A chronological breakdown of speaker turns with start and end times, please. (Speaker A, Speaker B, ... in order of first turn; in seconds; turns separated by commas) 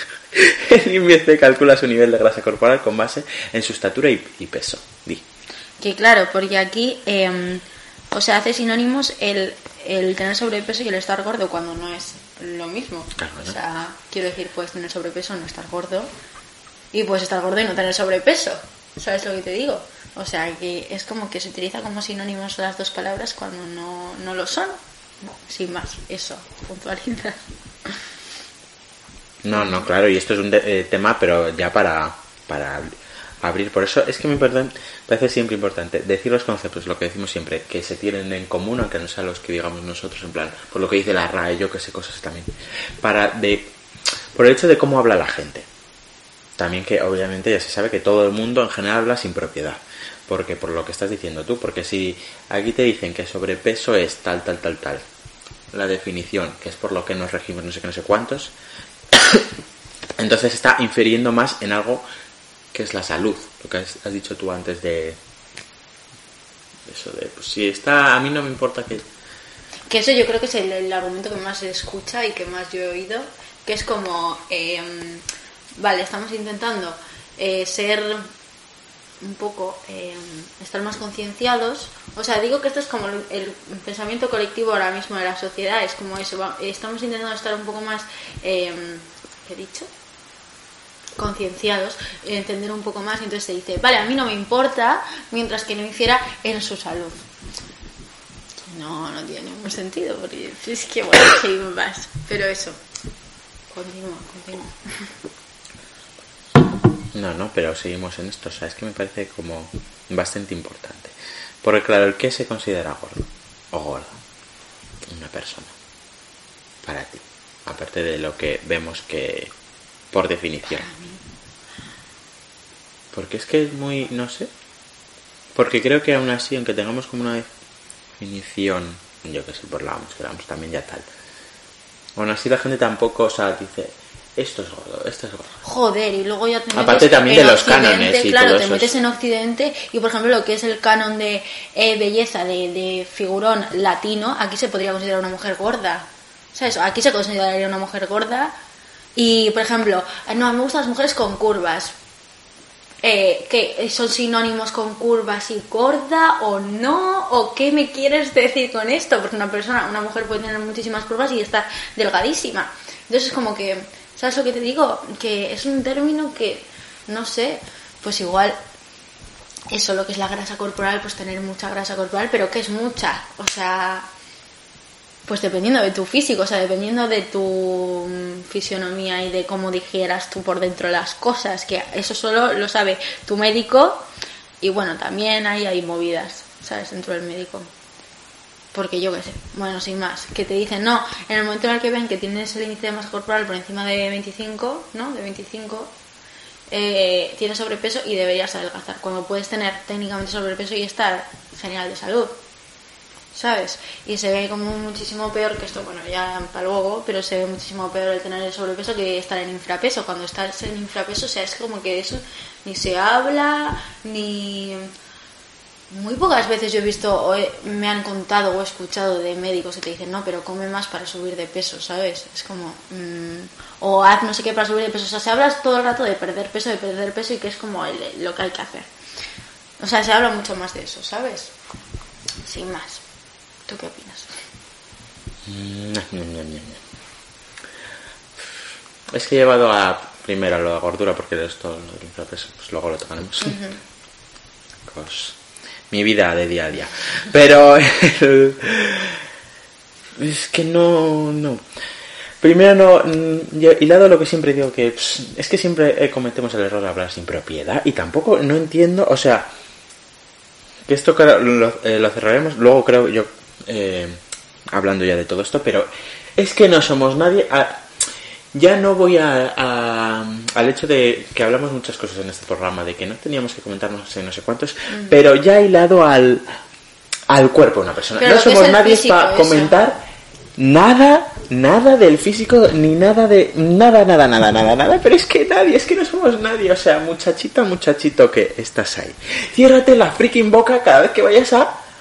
Speaker A: 0.3-5.2, Speaker B: 5.8-16.1, Speaker A: 13.2-13.6, Speaker B: 16.9-28.0, Speaker A: 29.4-43.7, Speaker B: 29.5-29.9, Speaker A: 44.4-45.7, Speaker A: 46.6-55.0, Speaker A: 55.7-58.5, Speaker A: 59.1-59.5, Speaker A: 60.2-62.0, Speaker A: 62.7-65.2, Speaker A: 66.9-69.1, Speaker B: 69.9-75.2, Speaker B: 75.8-78.3, Speaker B: 79.2-89.9, Speaker B: 91.2-97.2, Speaker B: 98.7-102.8, Speaker B: 103.7-105.1, Speaker A: 107.1-114.2, Speaker A: 115.1-115.7, Speaker A: 116.8-119.5, Speaker A: 120.1-120.9, Speaker B: 120.8-121.2, Speaker A: 123.1-124.5, Speaker A: 125.5-127.5, Speaker A: 128.2-131.1, Speaker A: 132.2-135.6, Speaker B: 135.6-148.6, Speaker A: 136.7-138.9, Speaker B: 149.2-151.9, Speaker B: 153.0-168.6, Speaker B: 169.7-174.1, Speaker B: 175.3-184.1, Speaker B: 184.6-187.7, Speaker B: 188.7-195.9, Speaker B: 196.7-202.4, Speaker B: 203.3-214.9, Speaker B: 215.9-228.9, Speaker B: 229.8-231.5, Speaker B: 232.4-233.0, Speaker B: 233.7-234.3, Speaker A: 235.5-236.8, Speaker A: 239.1-243.6, Speaker B: 243.4-243.8, Speaker A: 244.9-245.4, Speaker A: 245.9-249.2, Speaker A: 250.2-251.6, Speaker A: 252.4-259.5, Speaker A: 260.9-264.2, Speaker A: 264.7-276.5, Speaker B: 274.9-275.2, Speaker A: 277.3-280.0, Speaker B: 278.2-279.8, Speaker A: 280.6-291.8